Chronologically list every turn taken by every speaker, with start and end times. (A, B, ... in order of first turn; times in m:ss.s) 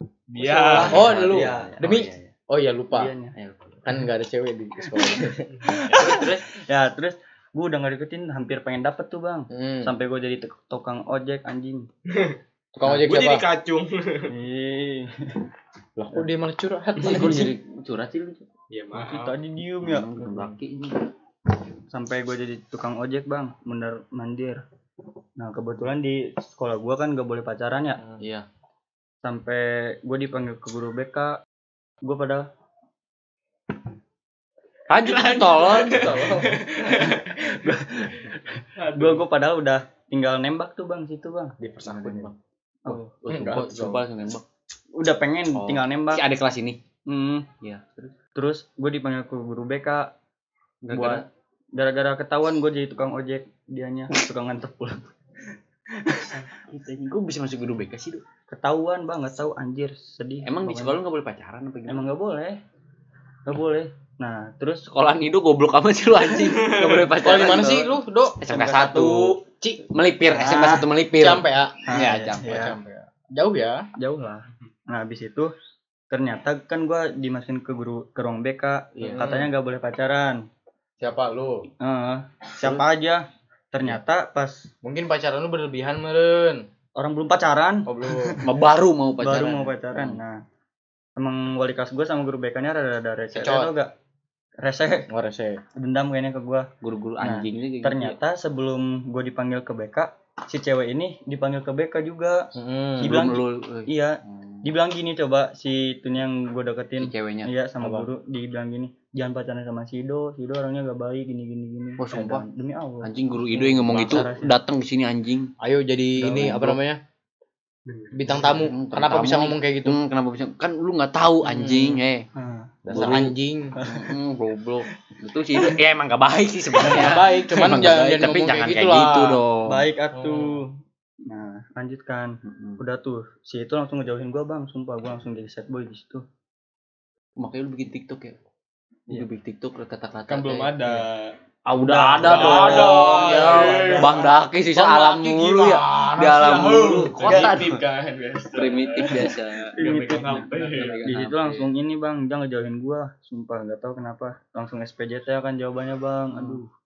0:00.3-0:01.0 A
0:00.4-0:01.8 B
0:00.7-0:02.3 C
0:00.9-0:03.1 D
0:02.9-0:03.4 B
0:03.4-0:03.8 C
0:03.8-0:05.7 D
0:05.6-0:11.9 B
0:05.9-0:06.5 C
0:09.5-0:09.9 D
0:12.1-0:14.3 A
0:12.8-0:13.5 D
0:14.3-0:15.4 B
0:16.0-0:17.5 D
0:17.0-0:18.4 C
0:18.7-0:19.4 A
0:19.0-0:20.1 B
0:19.8-0:21.0 C
0:21.9-0:24.6 B
0:25.4-0:28.0 B
0:28.2-0:28.5 C
0:29.2-0:31.4 B
0:32.0-0:32.5 B
0:34.9-0:36.5 C
0:35.0-0:37.2 A
0:36.8-0:41.6 B
0:38.8-0:39.2 A
0:41.6-0:42.3 D
0:41.8-0:42.3 C
0:42.9-0:44.4 C
0:43.3-0:44.0 D
0:45.0-0:46.2 B
0:45.6-0:46.8 C
0:47.1-0:47.5 B
0:47.6-0:48.2 C
0:48.4-0:50.1 B
0:50.8-0:51.2 C
0:50.9-0:55.1 B
0:55.9-0:56.4 B
0:56.2-0:58.2 C
0:58.5-1:01.0 B
1:00.4-1:02.0 C
1:01.9-1:02.6 B
1:03.5-1:04.9 B
1:04.9-1:12.7 C
1:06.6-1:07.1 A
1:07.2-1:08.4 D
1:08.4-1:09.4 B
1:10.3-1:10.9 B
1:11.2-1:11.8 D
1:11.9-1:12.8 B
1:12.5-1:13.9 D
1:14.0-1:15.5 B
1:16.1-1:20.4 B
1:19.0-1:19.3 C
1:19.0-1:19.5 D
1:21.0-1:21.7 D
1:21.8-1:24.7 B
1:24.8-1:26.6 D
1:27.0-1:28.5 B
1:27.9-1:28.4 D
1:28.4-1:30.2 C
1:29.2-1:30.4 B
1:31.2-1:33.9 B
1:33.4-1:33.7 D
1:34.6-1:35.1 B
1:35.1-1:35.6 D
1:35.8-1:36.7 B
1:36.8-1:38.2 C
1:37.2-1:42.5 B
1:42.6-1:43.3 D
1:43.0-1:54.6 B
1:43.0-1:44.6 C
1:47.0-1:47.5 C
1:47.8-1:48.1 D
1:52.0-1:52.5 C
1:53.0-1:55.5 C
1:55.6-1:57.0 D
1:56.2-1:56.8 B
1:58.1-2:00.0 D
1:58.3-2:02.3 C
2:01.7-2:04.1 B
2:02.8-2:03.8 D
2:02.9-2:09.8 C
2:06.8-2:09.4 D
2:09.7-2:10.7 B
2:10.1-2:10.6 D
2:11.2-2:16.2 B
2:12.5-2:12.8 C
2:17.4-2:18.4 C
2:19.1-2:21.0 C
2:20.3-2:24.4 A
2:21.7-2:27.8 C
2:22.2-2:24.3 B
2:24.8-2:26.1 D
2:25.9-2:31.0 A
2:27.2-2:27.7 B
2:28.5-2:31.7 C
2:29.8-2:36.7 B